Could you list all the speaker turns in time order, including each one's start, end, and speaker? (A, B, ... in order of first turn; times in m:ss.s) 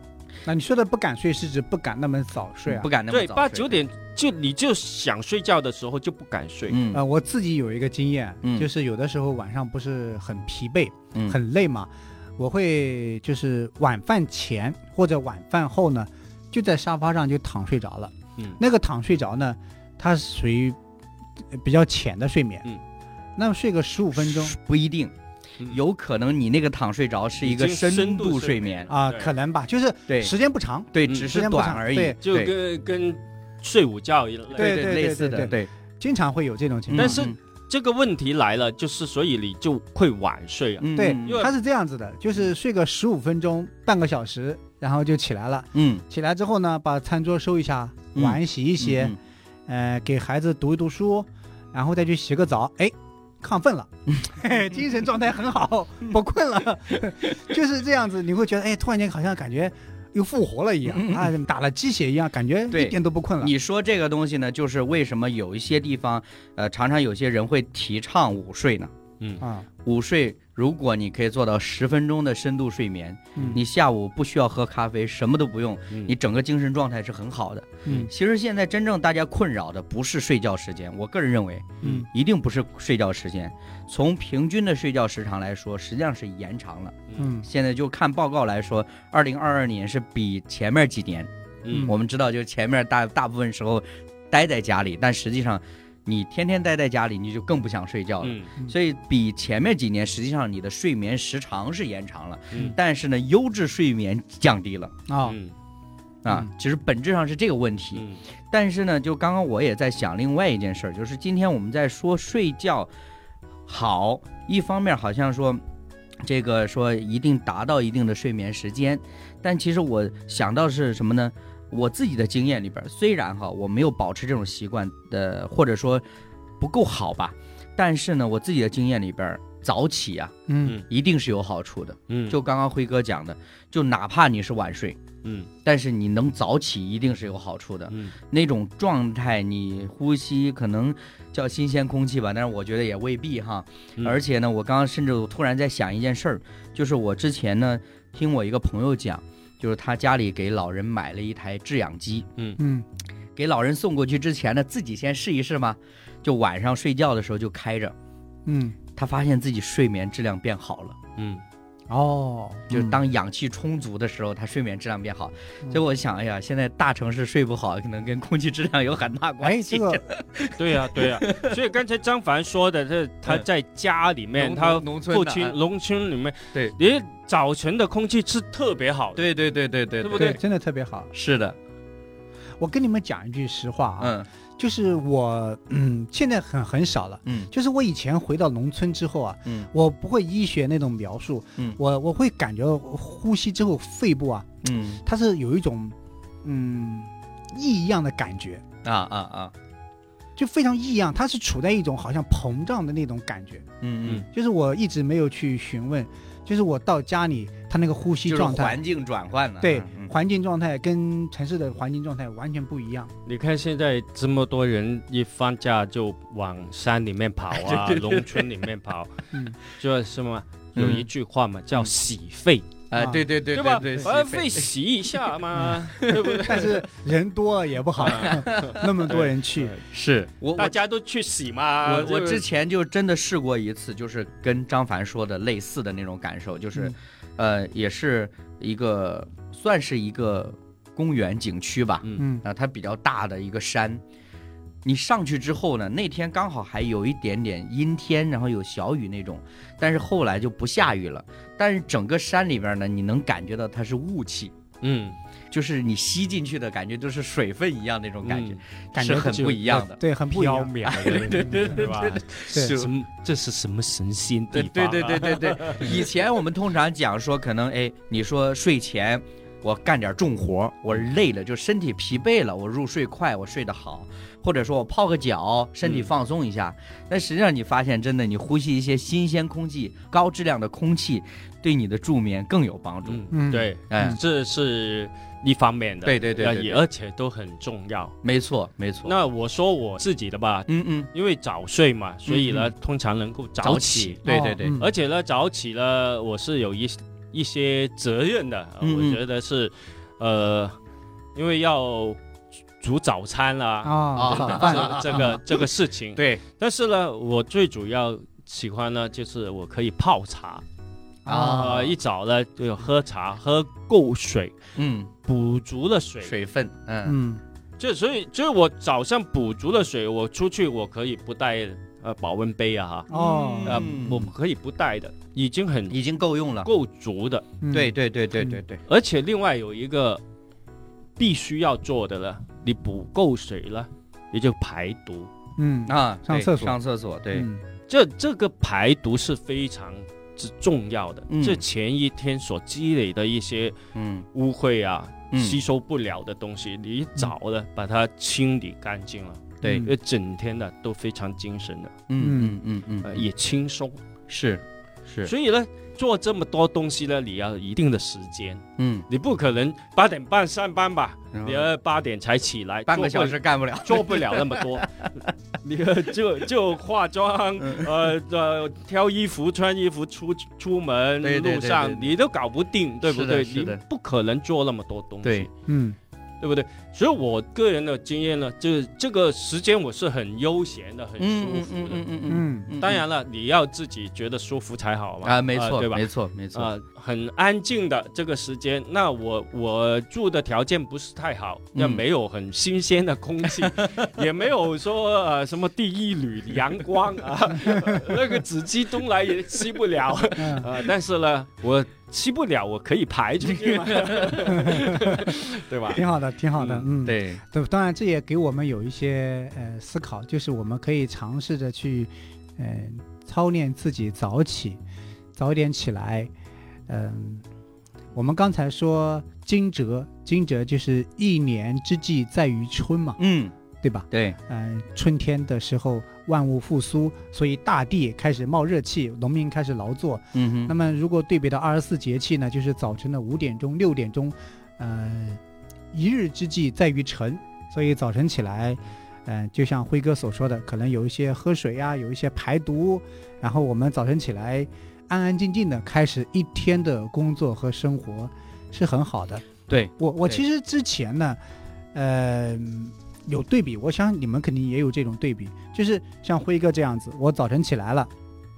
0:00.4-0:02.9 A
0:02.6-0:03.8 B
0:03.1-0:06.8 C
0:06.7-0:07.0 B
0:06.9-0:20.8 A
0:08.4-0:08.7 B
0:21.5-0:22.7 A
0:23.4-0:24.5 A
0:24.2-0:28.9 B
0:27.4-0:29.3 C
0:28.9-0:32.2 A
0:30.9-0:32.5 B
0:32.2-0:34.8 C
0:34.5-0:35.7 B
0:34.6-0:37.2 A
0:36.9-0:37.4 B
0:36.9-0:41.5 C
0:40.8-0:41.4 B
0:41.0-0:49.1 A
0:45.7-0:46.0 B
0:48.1-0:49.1 B
0:49.7-1:03.5 A
1:00.8-1:01.3 B
1:02.7-1:08.9 B
1:09.4-1:09.7 A
1:09.8-1:31.3 B
1:13.4-1:13.6 A
1:17.8-1:18.1 A
1:27.2-1:27.5 A
1:31.6-1:31.9 C
1:31.7-1:31.9 A
1:31.8-1:45.0 B
1:38.2-1:38.5 C
1:45.1-1:45.4 A
1:45.2-1:45.5 C
1:46.2-1:52.9 B
1:48.0-1:48.2 C
1:53.7-1:55.6 B
1:56.2-2:06.0 B
2:06.6-2:15.0 B
2:10.5-2:10.8 A
2:12.1-2:12.4 C
2:15.2-2:15.5 C
2:15.6-2:32.3 B
2:32.6-2:32.8 A
2:33.4-2:37.9 B
2:38.4-2:38.8 A
2:39.0-2:41.0 B
2:41.2-2:41.4 C
2:41.9-2:43.0 A
2:42.7-2:51.6 B
2:49.4-2:50.1 A
2:50.6-2:59.3 C
2:54.4-2:55.6 B
2:59.2-3:00.4 B
3:00.0-3:00.4 C
3:00.1-3:01.1 A
3:01.1-3:01.6 B
3:02.6-3:14.5 A
3:04.0-3:04.3 B
3:07.2-3:07.5 B
3:14.6-3:15.0 B
3:15.0-3:18.6 A
3:18.8-3:19.5 B
3:20.4-3:23.6 A
3:23.8-3:24.2 B
3:24.3-3:28.8 A
3:28.2-3:30.1 B
3:29.6-3:33.1 A
3:33.2-3:42.8 C
3:37.5-3:38.5 B
3:40.8-3:41.1 B
3:42.9-3:45.2 B
3:43.0-3:43.2 A
3:43.5-3:46.8 C
3:45.5-3:45.8 A
3:45.9-3:46.7 B
3:46.4-3:49.7 A
3:48.0-3:48.8 B
3:48.0-3:49.8 C
3:49.9-3:50.8 B
3:50.5-3:52.4 C
3:51.8-4:04.0 B
4:02.2-4:02.4 A
4:04.8-4:14.5 B
4:14.8-4:15.2 C
4:15.5-4:20.0 B
4:18.2-4:26.0 C
4:18.9-4:21.7 A
4:20.8-4:22.9 B
4:24.5-4:43.2 B
4:35.8-4:36.1 C
4:43.0-4:48.2 C
4:43.3-4:44.2 A
4:43.9-4:44.2 B
4:46.0-4:46.8 B
4:48.2-4:49.1 B
4:49.0-5:00.8 C
4:50.7-4:51.1 B
4:52.3-4:52.7 B
4:53.6-4:54.8 B
4:54.2-4:54.9 A
4:58.8-4:59.2 B
5:01.3-5:02.2 C
5:02.8-5:10.6 C
5:03.8-5:05.4 A
5:04.2-5:05.6 B
5:06.2-5:06.4 B
5:11.2-5:11.7 A
5:11.3-5:12.0 B
5:11.3-5:14.5 C
5:14.8-5:15.1 B
5:15.2-5:16.3 C
5:16.2-5:17.2 B
5:17.0-5:17.4 A
5:17.8-5:23.1 C
5:23.1-5:23.9 A
5:23.1-5:24.3 B
5:23.6-5:26.0 C
5:25.9-5:26.7 B
5:26.6-5:27.4 C
5:27.6-5:28.6 A
5:27.7-5:28.8 B
5:28.9-5:30.2 C
5:31.2-5:35.3 C
5:35.6-5:36.8 A
5:35.9-5:37.5 B
5:37.3-5:37.6 A
5:37.9-5:43.8 C
5:41.3-5:41.6 B
5:43.9-5:44.3 B
5:44.3-5:51.9 C
5:45.3-5:45.6 B
5:49.6-5:49.9 B
5:49.6-5:49.9 A
5:52.1-5:53.2 B
5:52.2-5:52.5 A
5:53.0-5:54.0 C
5:54.3-5:55.3 B
5:55.2-6:05.0 C
5:58.8-5:59.1 B
6:01.3-6:01.7 B
6:02.9-6:05.0 B
6:05.6-6:15.5 C
6:07.6-6:07.9 B
6:11.2-6:12.1 B
6:13.0-6:13.8 B
6:15.2-6:15.5 B
6:15.7-6:16.0 A
6:16.4-6:22.0 C
6:21.2-6:23.0 B
6:22.3-6:22.7 A
6:22.8-6:46.0 C
6:25.2-6:26.7 B
6:31.7-6:32.0 B
6:33.5-6:34.1 B
6:37.7-6:38.0 A
6:40.4-6:40.7 A
6:43.4-6:44.7 B
6:44.5-6:45.2 A
6:45.9-6:54.8 A
6:46.6-6:46.9 C
6:47.0-6:47.4 B
6:55.4-6:56.3 A
6:56.9-6:57.4 A
6:58.1-7:03.2 A
7:03.2-7:03.5 B
7:03.8-7:15.4 A
7:04.1-7:04.4 B
7:10.3-7:10.7 B
7:15.9-7:29.5 A
7:29.7-7:30.4 B
7:30.0-7:31.4 A
7:31.9-7:38.1 A